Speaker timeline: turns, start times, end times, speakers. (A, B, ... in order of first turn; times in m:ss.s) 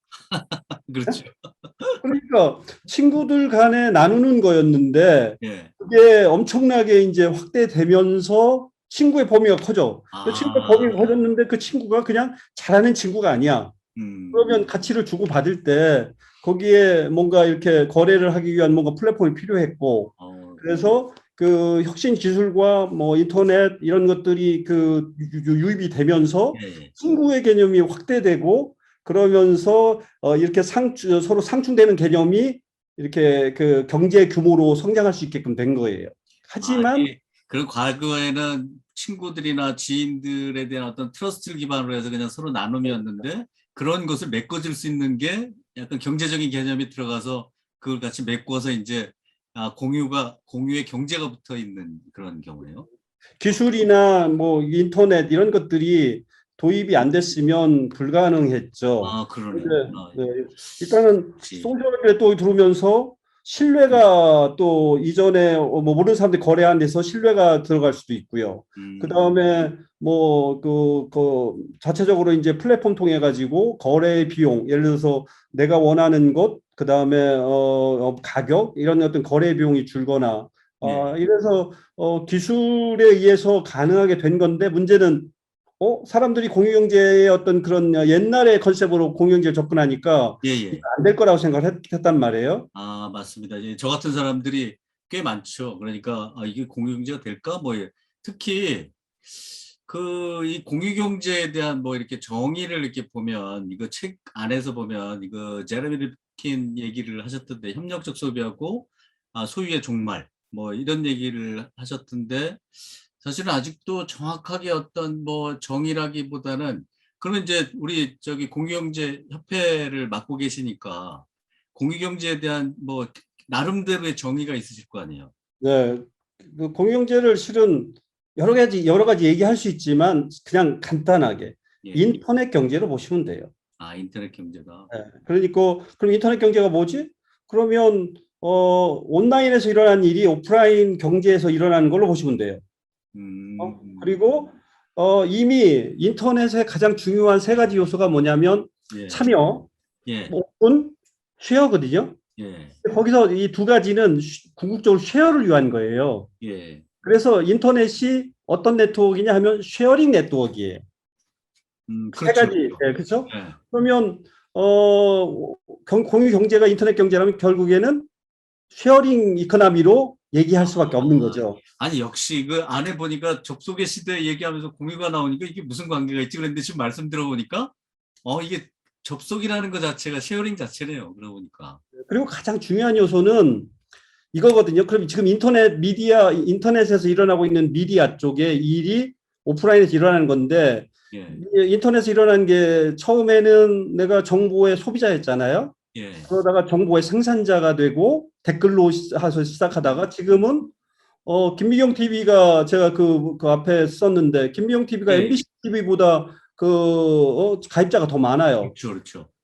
0:00.3-0:02.0 A
0:02.0-0:13.7 B
0:05.4-0:05.7 A
0:10.1-0:11.3 A
0:14.0-0:14.6 A
0:14.3-0:37.1 B
0:20.2-0:20.9 A
0:26.5-0:27.0 A
0:36.6-0:52.9 A
0:53.4-1:32.7 B
0:59.0-1:00.2 A
1:01.4-1:01.7 A
1:08.8-1:09.5 A
1:20.8-1:21.1 A
1:30.4-1:30.8 A
1:32.7-1:52.6 A
1:53.2-2:05.3 A
2:05.6-2:13.5 B
2:11.8-2:12.1 A
2:13.8-2:14.9 A
2:14.9-2:22.6 B
2:23.2-2:24.2 A
2:23.6-2:29.7 B
2:28.9-2:29.3 A
2:30.0-2:30.3 A
2:30.3-2:32.2 B
2:32.4-2:32.8 A
2:32.8-2:36.3 B
2:36.4-2:36.8 A
2:37.0-2:40.8 B
2:41.9-2:43.6 A
2:42.2-2:48.1 B
2:48.7-2:51.6 B
2:50.6-2:57.7 A
2:58.2-3:01.8 A
3:02.1-3:03.7 B
3:04.3-3:15.8 B
3:11.1-3:11.4 A
3:15.9-3:16.3 A
3:16.3-3:20.7 B
3:19.8-3:20.4 A
3:21.3-3:28.7 B
3:25.1-3:25.4 A
3:28.6-3:29.3 A